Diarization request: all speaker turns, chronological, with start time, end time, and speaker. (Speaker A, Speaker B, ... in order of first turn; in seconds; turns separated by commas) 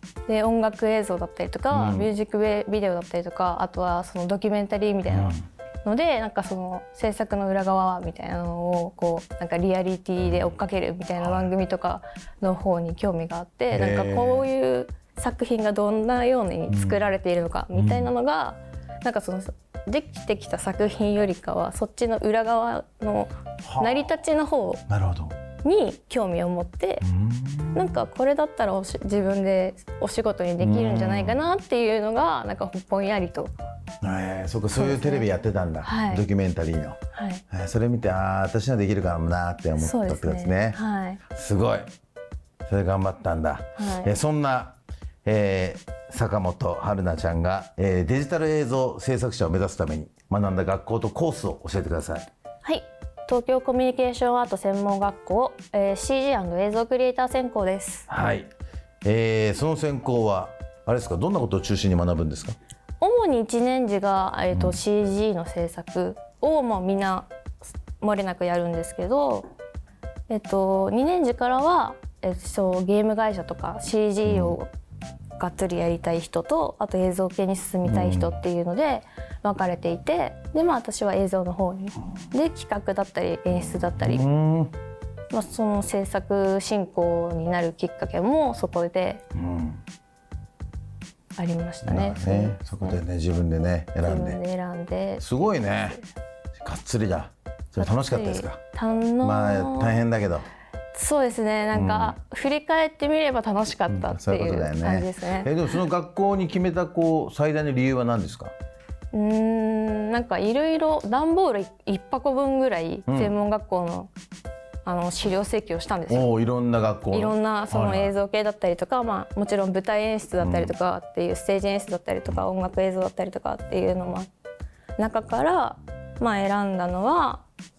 Speaker A: 0.3-24.8, Speaker B: 1.7-2.1, Speaker B: 5.1-5.5, Speaker B: 11.2-11.5, Speaker B: 13.7-14.5, Speaker B: 16.7-17.0, Speaker B: 17.7-18.1, Speaker B: 23.7-24.1, Speaker B: 24.9-25.4, Speaker A: 25.6-27.1, Speaker B: 27.0-27.9, Speaker A: 27.7-33.5, Speaker B: 30.6-31.4, Speaker B: 34.0-37.0, Speaker A: 34.7-35.3, Speaker A: 35.8-36.2, Speaker A: 37.1-37.4, Speaker B: 37.5-40.8, Speaker A: 39.8-41.2, Speaker B: 41.3-41.9, Speaker B: 42.7-52.3, Speaker A: 43.8-44.1, Speaker A: 52.6-58.1, Speaker B: 58.1-58.5, Speaker B: 59.0-62.6, Speaker A: 63.0-67.3, Speaker B: 64.5-64.8, Speaker A: 68.0-69.5, Speaker A: 70.3-74.7, Speaker B: 74.2-74.6, Speaker A: 75.4-84.3, Speaker B: 77.8-78.4, Speaker B: 84.0-84.8, Speaker A: 85.3-89.2, Speaker B: 89.3-89.8, Speaker A: 91.4-93.0, Speaker B: 91.8-94.4, Speaker A: 94.0-96.0, Speaker B: 95.2-96.0, Speaker B: 96.6-98.6, Speaker A: 97.8-100.0, Speaker B: 99.2-100.5, Speaker A: 100.9-105.5, Speaker B: 101.7-102.2, Speaker B: 103.9-108.5, Speaker A: 109.1-114.1, Speaker B: 113.1-113.4, Speaker A: 114.8-116.3, Speaker B: 116.1-118.1, Speaker A: 117.1-124.3, Speaker B: 120.4-120.7, Speaker A: 125.0-127.5